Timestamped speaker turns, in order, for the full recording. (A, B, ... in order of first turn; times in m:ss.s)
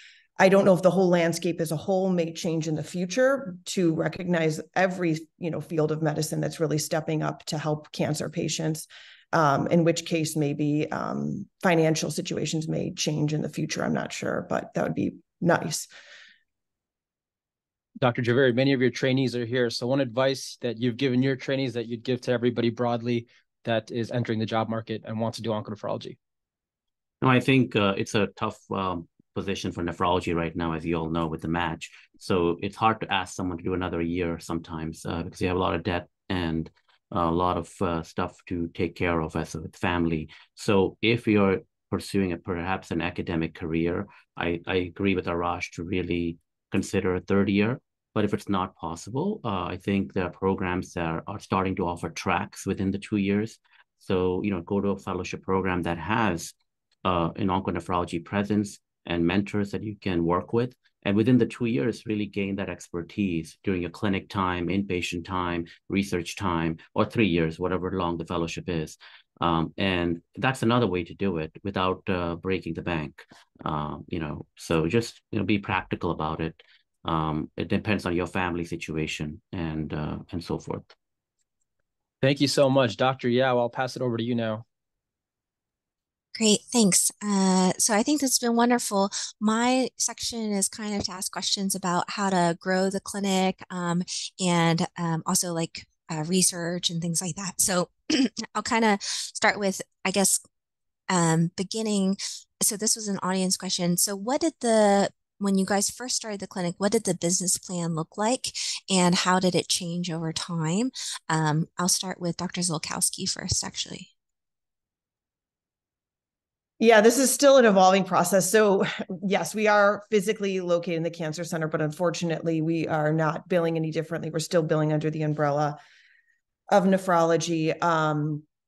0:00.4-0:15.9 A
0:18.0-0:26.2 B
0:27.2-0:56.5 C
0:57.0-1:20.9 C
1:22.2-1:24.6 B
1:26.3-1:40.4 D
1:41.1-1:54.1 D
1:56.8-2:05.8 A
2:06.7-2:08.4 A